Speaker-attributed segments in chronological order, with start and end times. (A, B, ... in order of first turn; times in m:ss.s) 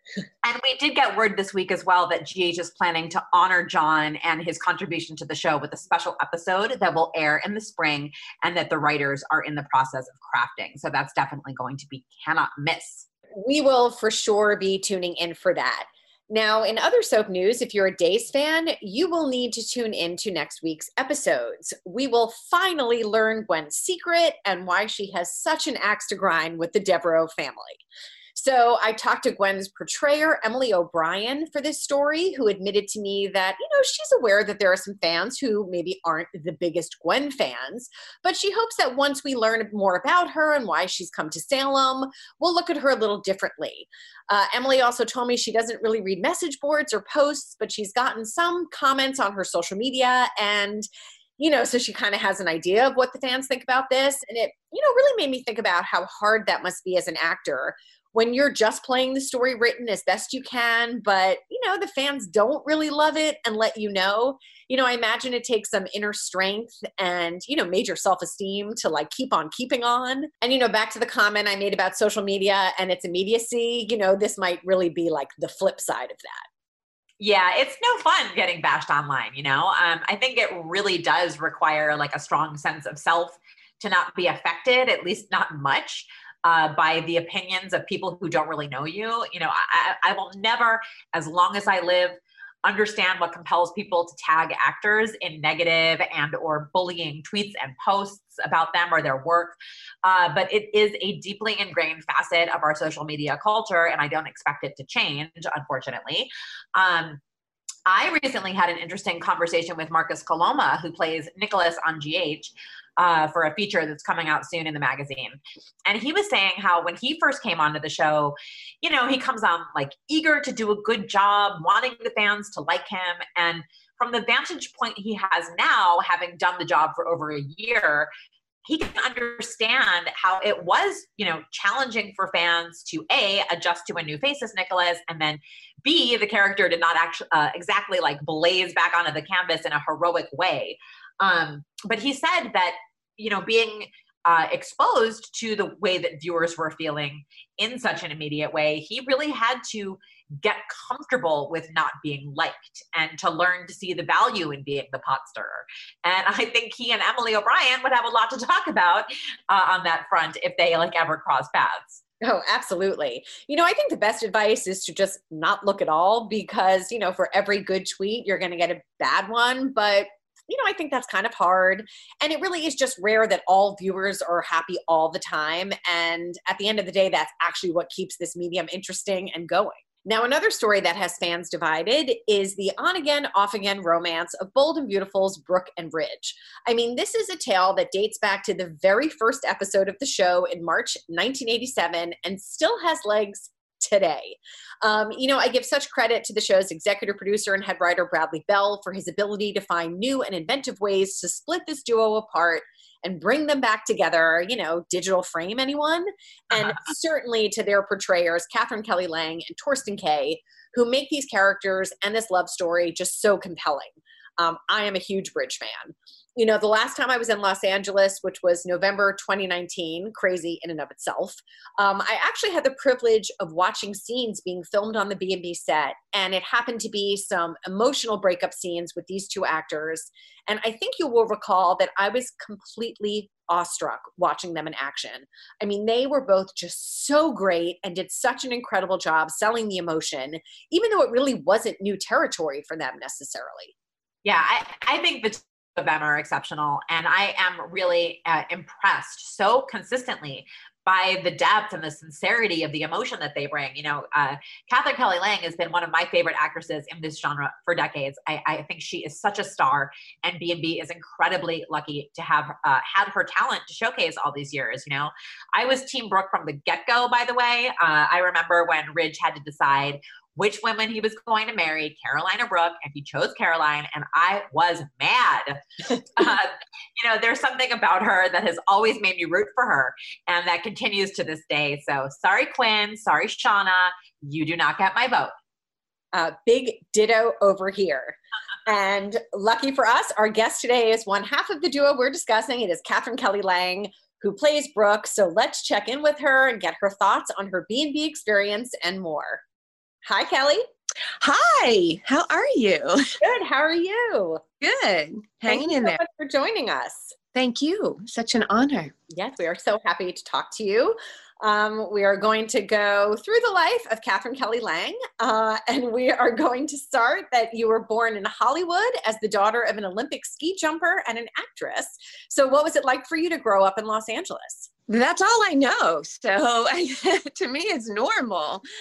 0:00.4-0:13.1 A
0:13.4-0:27.8 B
0:28.4-0:50.9 B
0:51.4-1:16.4 B
1:17.2-1:47.2 A
1:47.9-2:08.1 A
2:08.6-2:42.0 A
2:42.2-4:03.7 B
4:04.2-4:45.3 A
4:46.1-4:59.4 B
5:00.0-5:00.6 B
5:01.2-5:03.1 C
5:03.2-5:04.4 B
5:04.6-5:06.0 C
5:05.5-5:07.1 B
5:07.3-5:08.9 C
5:09.1-5:24.7 B
5:24.9-5:28.6 C